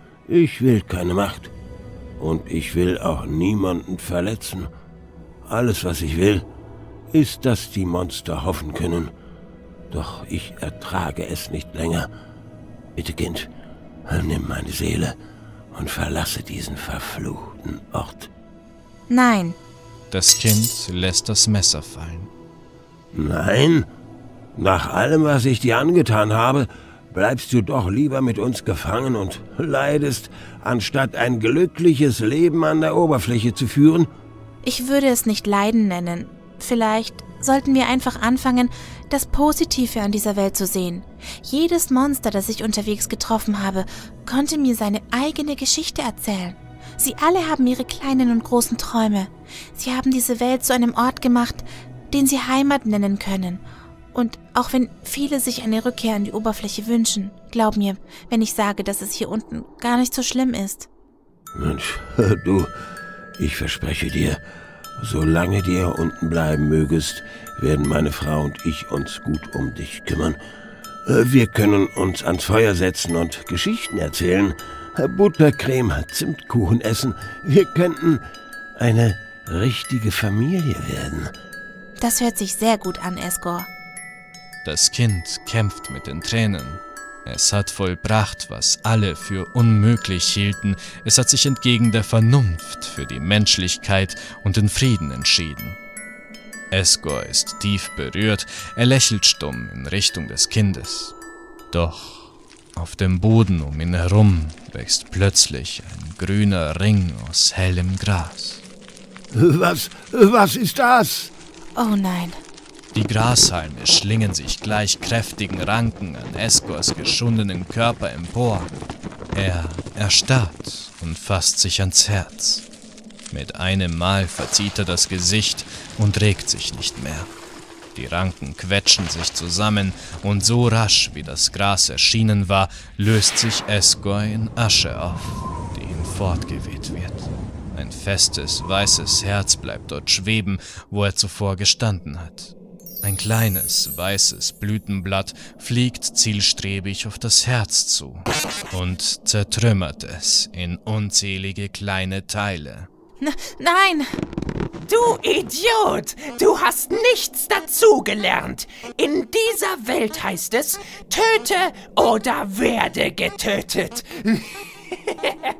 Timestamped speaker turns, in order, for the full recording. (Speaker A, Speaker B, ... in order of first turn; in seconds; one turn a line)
Speaker A: 0.3-1.5
Speaker A: 2.2-4.7
Speaker A: 5.5-6.4
Speaker A: 7.1-9.1
Speaker A: 9.9-12.1
Speaker A: 12.9-13.5
Speaker A: 14.1-15.1
Speaker A: 15.7-18.3
Speaker B: 19.1-19.6
Speaker C: 20.1-22.3
Speaker A: 23.1-23.9
Speaker A: 24.6-34.1
Speaker B: 34.6-53.6
Speaker B: 54.1-60.9
Speaker A: 61.5-62.7
Speaker A: 63.4-64.4
Speaker A: 65.0-70.4
Speaker A: 71.0-78.2
Speaker A: 78.8-81.3
Speaker B: 82.0-83.7
Speaker C: 84.6-95.8
Speaker C: 96.7-101.1
Speaker C: 101.7-108.6
Speaker A: 109.3-111.3
Speaker B: 111.8-112.4
Speaker C: 112.9-118.7
Speaker C: 119.3-122.6
Speaker C: 123.3-127.3
Speaker C: 127.9-152.9
Speaker B: 153.2-154.2
Speaker D: 154.9-164.6